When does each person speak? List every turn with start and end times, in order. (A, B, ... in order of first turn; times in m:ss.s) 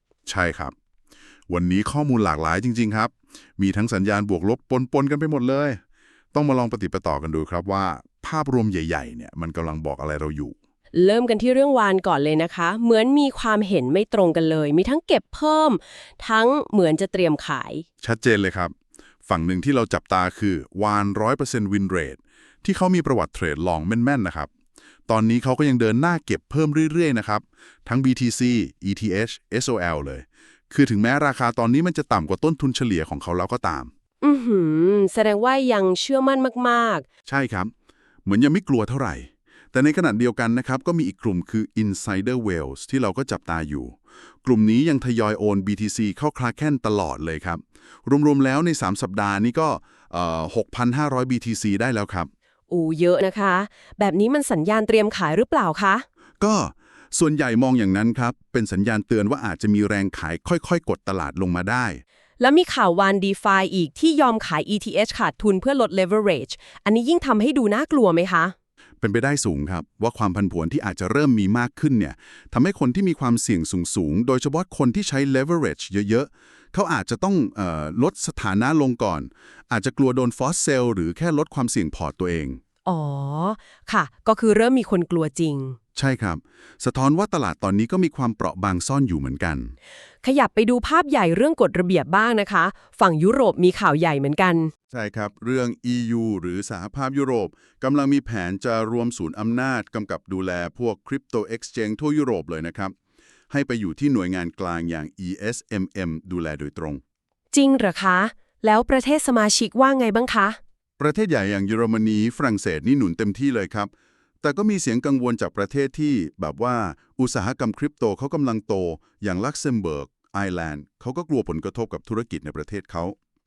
0:00.3-0:00.8 A
0:01.5-0:05.8 A
0:06.3-0:10.6 A
0:10.9-0:17.8 B
0:18.0-0:18.7 A
0:19.3-0:24.5 A
0:25.1-0:33.9 A
0:34.2-0:37.1 B
0:37.3-0:37.7 A
0:38.2-0:52.3 A
0:52.7-0:56.0 B
0:56.4-1:02.0 A
1:02.4-1:08.5 B
1:09.0-1:22.6 A
1:22.8-1:25.8 B
1:26.0-1:29.7 A
1:30.2-1:34.7 B
1:34.9-1:42.9 A
1:43.5-1:47.0 A
1:47.5-1:50.6 B
1:51.0-1:53.9 A
1:54.4-2:03.2 A